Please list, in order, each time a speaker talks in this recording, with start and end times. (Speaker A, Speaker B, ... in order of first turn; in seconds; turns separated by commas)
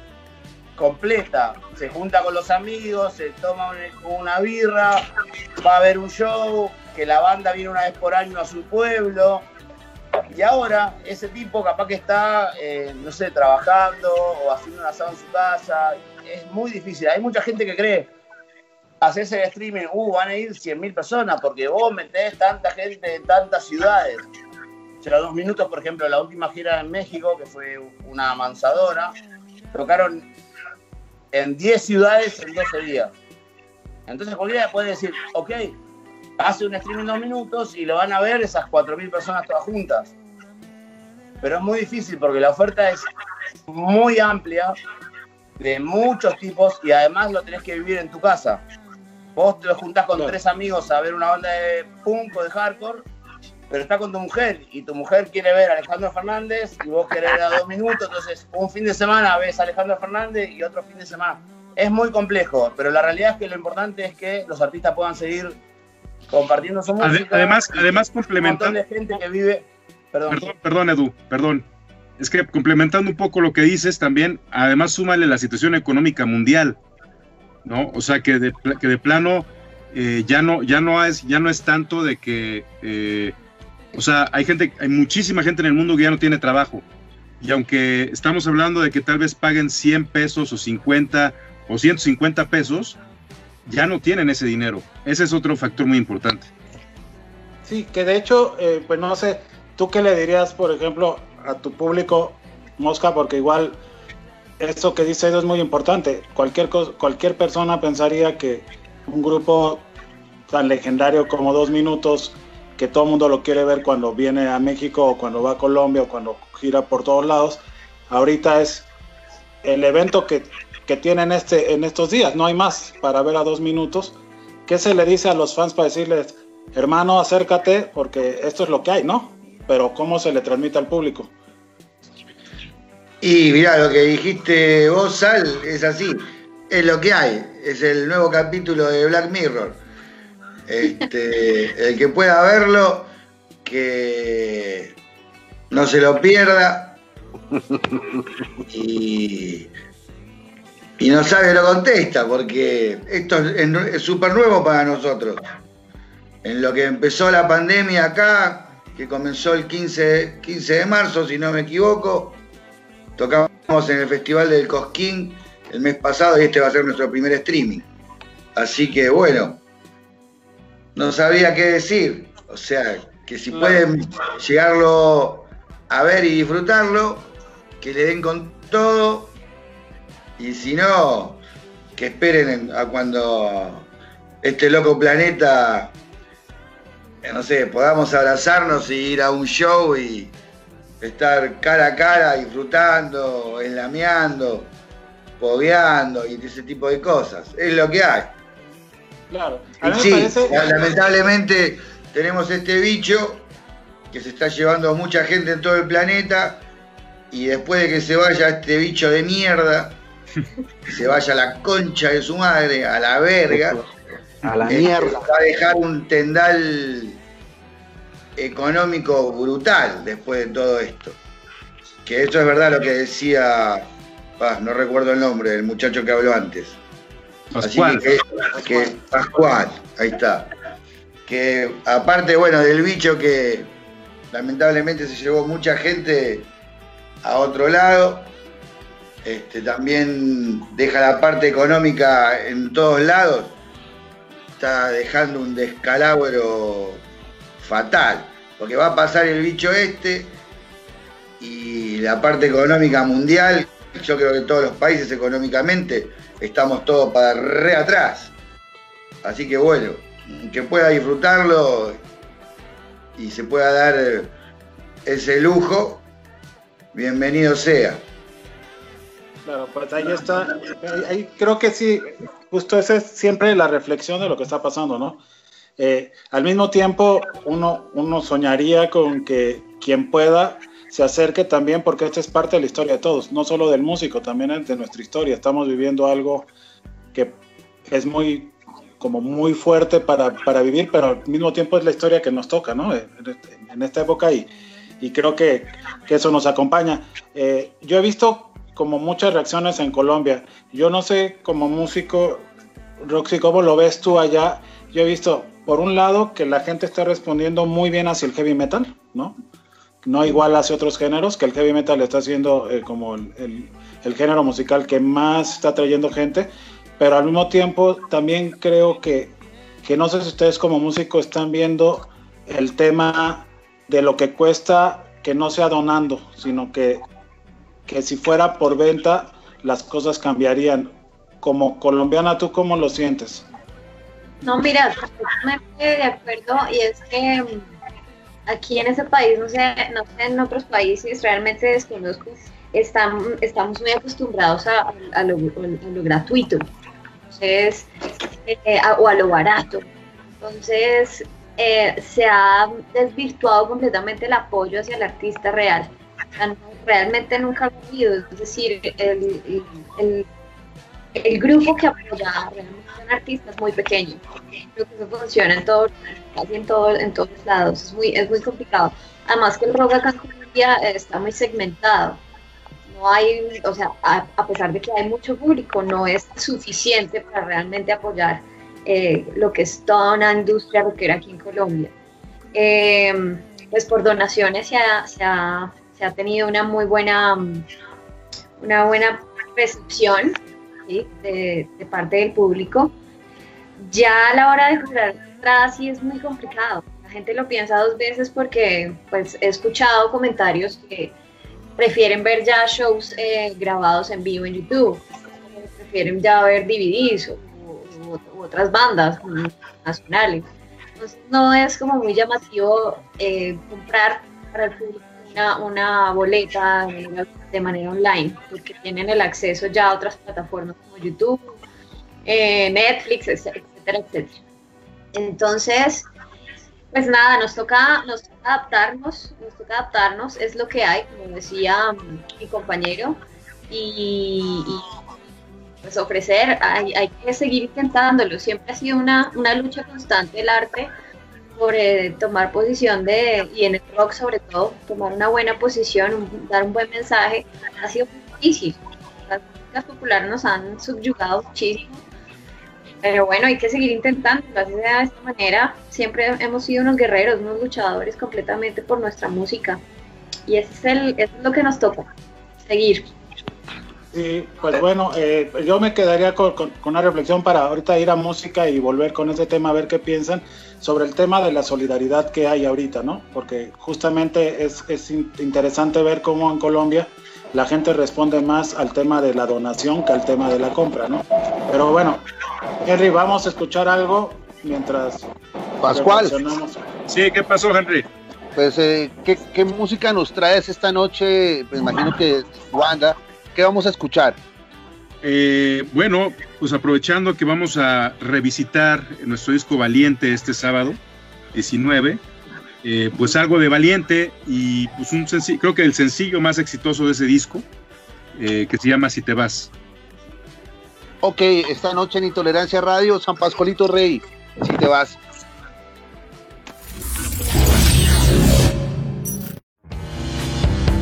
Speaker A: 0.8-5.0, Speaker A: 5.6-9.5, Speaker A: 10.3-18.1, Speaker A: 19.0-24.2, Speaker A: 25.0-29.1, Speaker A: 29.7-30.2, Speaker A: 31.3-33.1, Speaker A: 34.1-35.8, Speaker A: 36.4-40.1, Speaker A: 41.4-43.1, Speaker A: 43.7-44.8, Speaker A: 45.6-48.6, Speaker A: 49.4-53.1, Speaker A: 53.7-65.6, Speaker A: 66.3-70.5, Speaker B: 67.0-68.8, Speaker B: 70.3-71.7, Speaker B: 72.2-76.8, Speaker B: 77.6-83.3, Speaker B: 83.9-86.8, Speaker B: 87.4-93.0, Speaker B: 93.7-96.5, Speaker C: 97.6-103.8, Speaker C: 104.6-109.9, Speaker C: 110.5-118.9, Speaker C: 119.6-131.3, Speaker D: 133.2-139.8, Speaker D: 140.7-143.1, Speaker D: 143.6-144.9, Speaker D: 145.7-147.0, Speaker E: 147.6-148.2, Speaker D: 148.7-149.7, Speaker D: 151.0-155.4, Speaker D: 156.4-162.4, Speaker D: 163.2-167.9, Speaker D: 168.5-169.6, Speaker D: 170.9-179.3, Speaker C: 173.5-173.8, Speaker D: 180.4-181.4, Speaker D: 181.9-183.9, Speaker D: 184.4-185.9, Speaker D: 187.2-190.3, Speaker D: 191.0-194.7, Speaker D: 195.4-198.3, Speaker C: 199.3-200.9, Speaker D: 199.8-203.5, Speaker D: 204.1-206.6, Speaker D: 207.3-210.0, Speaker D: 210.9-213.8, Speaker E: 213.5-213.8, Speaker E: 214.4-215.2, Speaker D: 214.6-217.2, Speaker D: 218.3-221.2, Speaker D: 222.0-223.8, Speaker D: 224.4-226.8, Speaker B: 227.5-228.1, Speaker D: 227.6-230.5, Speaker D: 231.3-233.7, Speaker D: 234.3-236.5, Speaker D: 237.2-238.3, Speaker D: 239.2-243.6, Speaker D: 244.6-247.0, Speaker D: 247.6-250.4, Speaker D: 251.4-258.3, Speaker D: 259.2-262.0, Speaker D: 263.2-264.3, Speaker D: 265.0-266.0, Speaker D: 266.9-268.0, Speaker C: 269.4-275.2, Speaker C: 275.8-286.5, Speaker C: 287.1-294.5, Speaker C: 295.0-302.5, Speaker C: 303.0-309.4, Speaker C: 310.0-327.0, Speaker C: 327.9-333.5, Speaker F: 334.4-337.8, Speaker F: 338.4-346.7, Speaker F: 347.3-347.9, Speaker F: 348.4-349.9, Speaker F: 350.4-360.3, Speaker F: 361.1-364.2, Speaker F: 364.7-372.2, Speaker F: 372.9-381.9, Speaker F: 382.5-387.7, Speaker F: 388.6-392.9, Speaker F: 393.8-401.1, Speaker F: 401.8-410.5, Speaker F: 411.0-421.6, Speaker F: 422.2-424.4, Speaker F: 425.1-426.1, Speaker F: 426.9-434.9, Speaker F: 435.8-440.9, Speaker F: 441.6-452.0, Speaker F: 453.0-459.8, Speaker F: 460.5-462.1, Speaker F: 462.6-463.1, Speaker C: 464.1-482.2, Speaker C: 482.8-485.3, Speaker E: 485.8-486.3, Speaker C: 485.9-486.8, Speaker B: 487.1-488.1, Speaker E: 488.5-494.4, Speaker B: 495.2-501.0, Speaker B: 501.5-502.2, Speaker B: 502.8-507.6, Speaker B: 508.3-509.7, Speaker E: 511.2-515.2